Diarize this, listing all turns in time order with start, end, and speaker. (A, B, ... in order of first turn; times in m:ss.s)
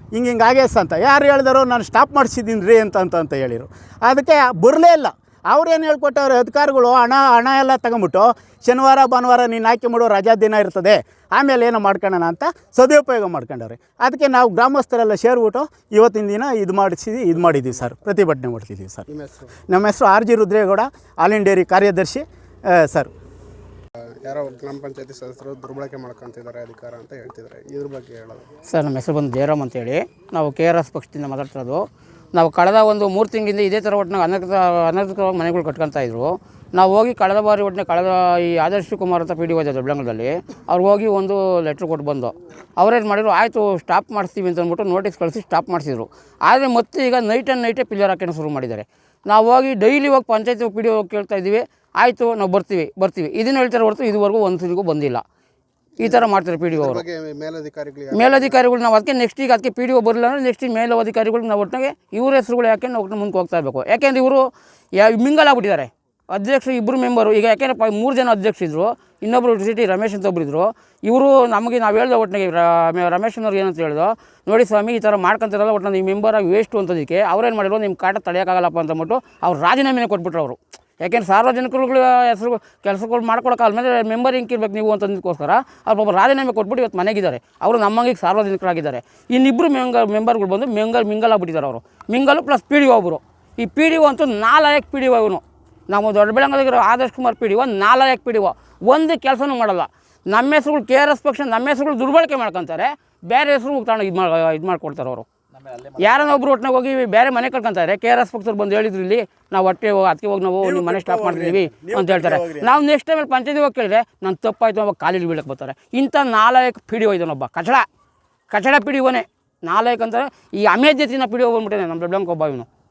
0:00.1-0:19.1 A
0:19.1-0:19.6 B
0:19.7-0:23.1 A
0:24.0-0:28.5 B
0:28.7-0:55.2 C
0:56.0-0:57.0 C
0:56.0-0:58.6 B
0:58.1-1:45.3 C
1:45.8-1:57.8 C
1:50.6-1:52.8 A
1:58.5-2:02.7 C